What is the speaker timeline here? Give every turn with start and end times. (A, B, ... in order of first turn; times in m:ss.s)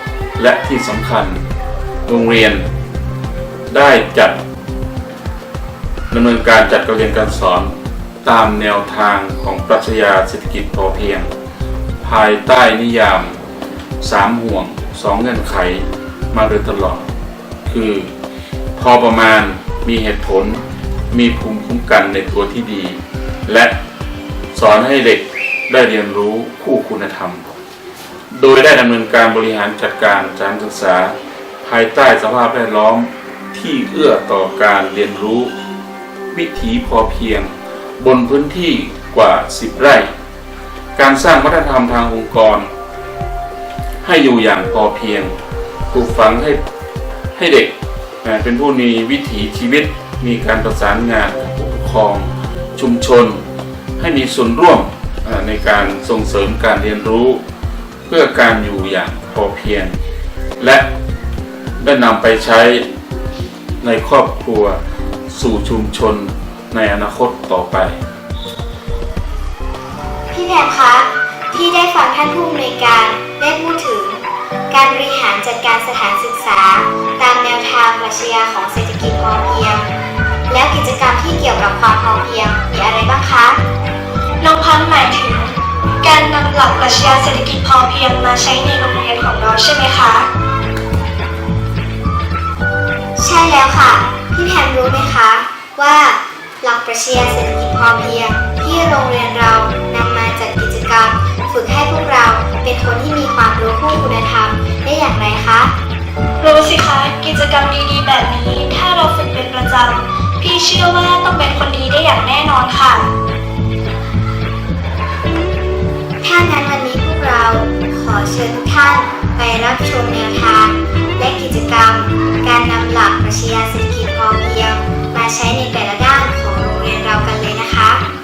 0:00.4-0:01.4 A
0:02.1-0:02.7 A
0:03.7-0:04.4 A
0:06.1-0:11.3 A
0:12.0-0:13.4 A
0:14.0-0:17.1 A
0:17.6-0:18.1 A
0:18.8-0:23.8 A
0:24.5-0:27.5 A
0:28.3-0:35.5 A
0:36.3-0:40.1 A
0:41.0-0:42.7 A
0:44.0-0:45.3 A
0:45.9-0:46.6 A
0:47.4-0:53.4 A
0:54.0-0:57.4 A
0:58.1-1:00.0 A
1:00.6-1:00.9 A
1:01.8-1:02.8 A
1:03.8-1:04.8 A
1:05.3-1:08.0 A
1:10.3-1:19.9 B
1:20.5-1:23.6 B
1:24.4-1:30.3 C
1:33.2-1:45.7 B
1:46.4-1:53.1 C
1:56.2-2:08.0 B